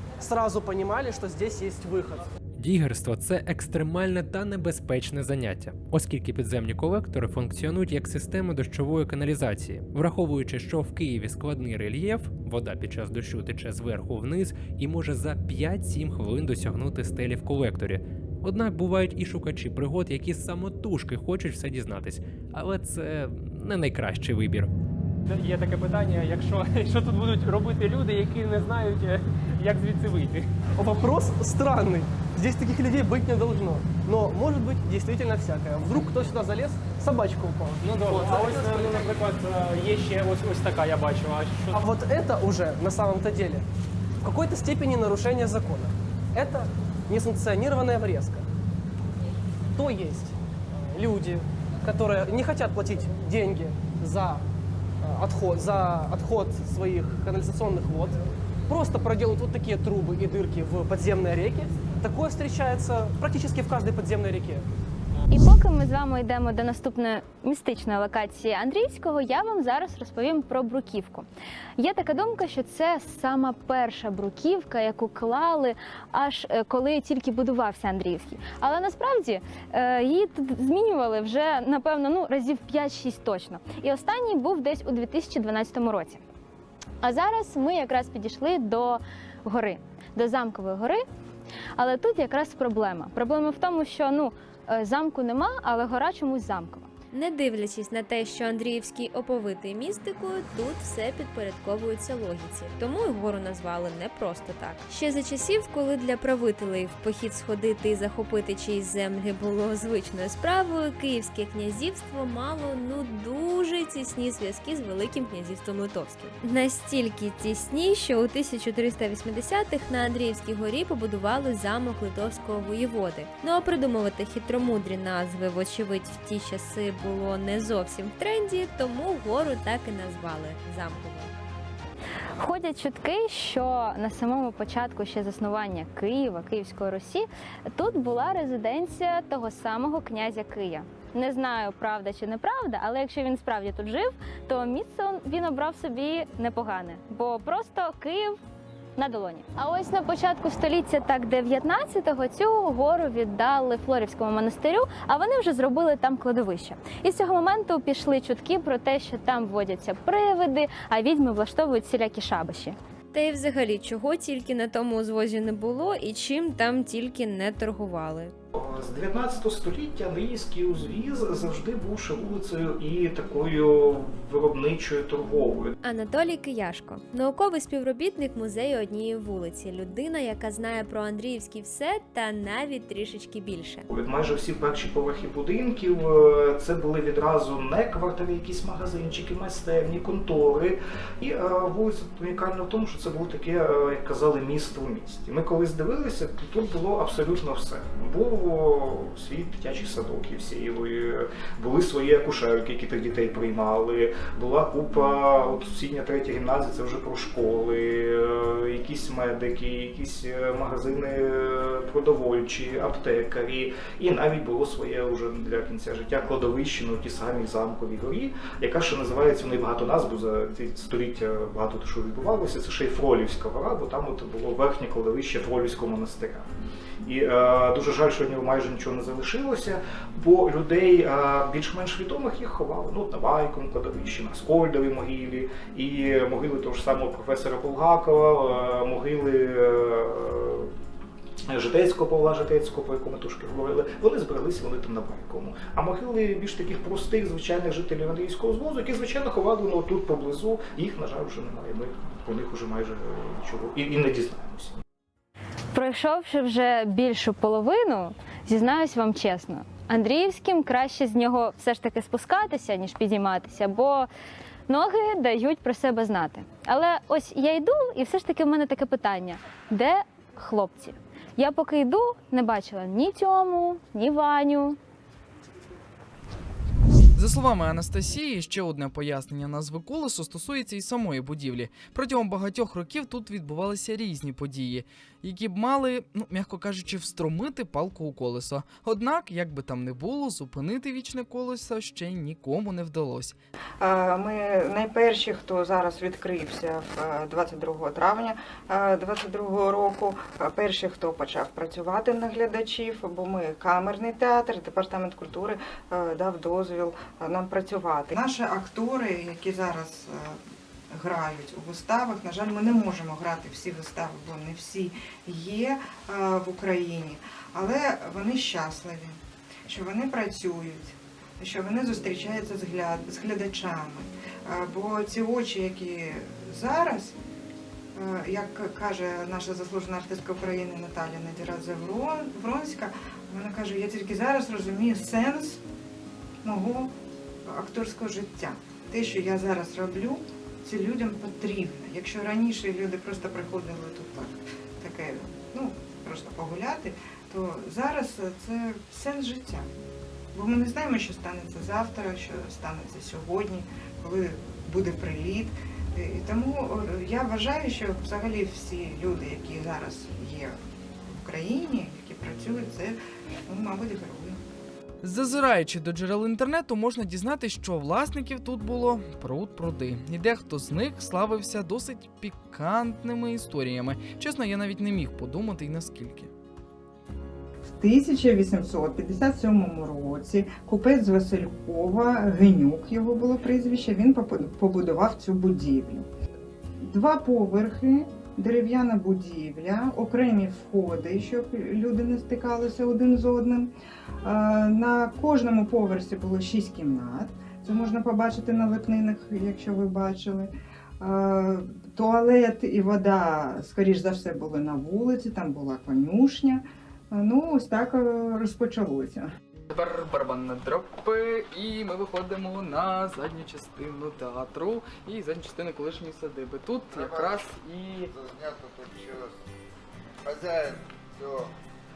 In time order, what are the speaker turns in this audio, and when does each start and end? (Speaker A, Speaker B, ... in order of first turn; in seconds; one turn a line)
Speaker A: 0.2-2.3
Speaker B: 2.5-24.7
Speaker C: 25.3-30.5
Speaker A: 30.8-39.2
Speaker C: 37.8-41.8
Speaker A: 41.7-43.6
Speaker A: 44.2-48.5
Speaker A: 49.8-54.4
Speaker A: 55.0-64.7
Speaker D: 65.3-71.3
Speaker D: 71.8-86.2
Speaker D: 87.0-91.0
Speaker D: 91.8-96.9
Speaker E: 97.1-131.3
Speaker D: 132.4-148.4
Speaker D: 149.0-162.8
Speaker E: 163.1-168.3
Speaker F: 168.5-175.8
Speaker E: 175.8-183.8
Speaker F: 183.9-226.5
Speaker F: 227.0-240.7
Speaker F: 241.5-254.8
Speaker D: 255.7-264.1
Speaker D: 264.7-274.8
Speaker G: 277.1-293.4
Speaker H: 293.8-327.1
Speaker H: 327.9-335.6
Speaker H: 336.4-336.9
Speaker H: 337.4-349.7
Speaker H: 350.3-364.4
Speaker G: 365.0-376.3
Speaker H: 377.7-386.1
Speaker H: 386.8-393.7
Speaker H: 394.2-409.3
Speaker I: 409.7-418.1
Speaker J: 416.9-417.4
Speaker J: 418.1-419.4
Speaker J: 420.2-421.5